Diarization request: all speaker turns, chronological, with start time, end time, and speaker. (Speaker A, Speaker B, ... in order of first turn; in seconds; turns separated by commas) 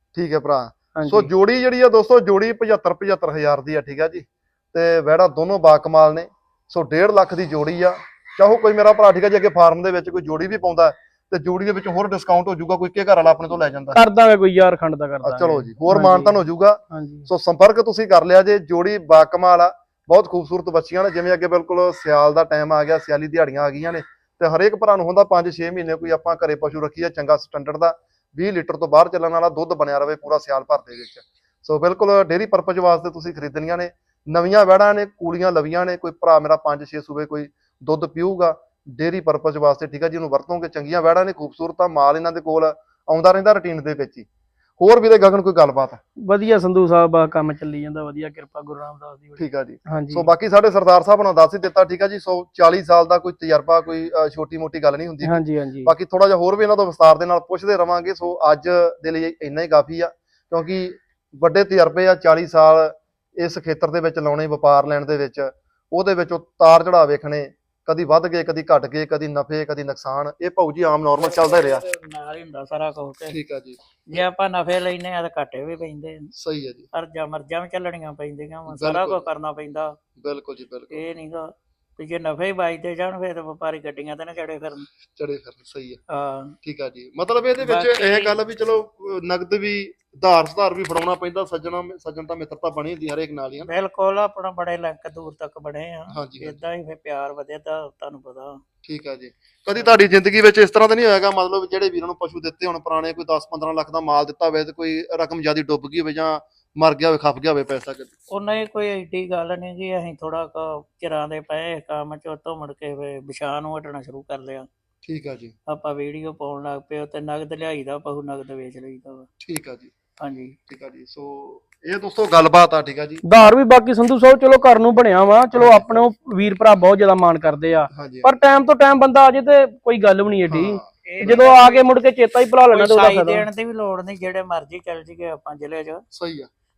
Speaker A: 0.1-14.0, Speaker B: 0.9-1.3, Speaker B: 13.9-17.3, Speaker A: 15.2-44.2, Speaker A: 44.8-46.0, Speaker B: 46.2-50.3, Speaker A: 49.4-71.8, Speaker B: 55.2-55.9, Speaker C: 71.2-73.4, Speaker A: 73.3-74.2, Speaker C: 74.1-76.3, Speaker A: 76.3-76.9, Speaker C: 76.9-80.0, Speaker A: 78.7-79.2, Speaker A: 80.2-81.0, Speaker C: 80.9-84.9, Speaker A: 85.1-86.0, Speaker C: 86.1-86.5, Speaker A: 86.6-93.7, Speaker C: 87.6-88.3, Speaker C: 93.7-98.6, Speaker A: 96.1-96.6, Speaker A: 98.8-108.1, Speaker C: 108.3-114.7, Speaker A: 115.0-115.5, Speaker C: 115.7-119.3, Speaker A: 119.4-119.9, Speaker C: 120.2-120.5, Speaker A: 120.7-123.2, Speaker B: 123.2-133.4, Speaker A: 125.6-126.1, Speaker A: 127.9-128.4, Speaker A: 130.5-131.5, Speaker C: 131.0-131.8, Speaker C: 132.7-136.0, Speaker A: 136.1-136.5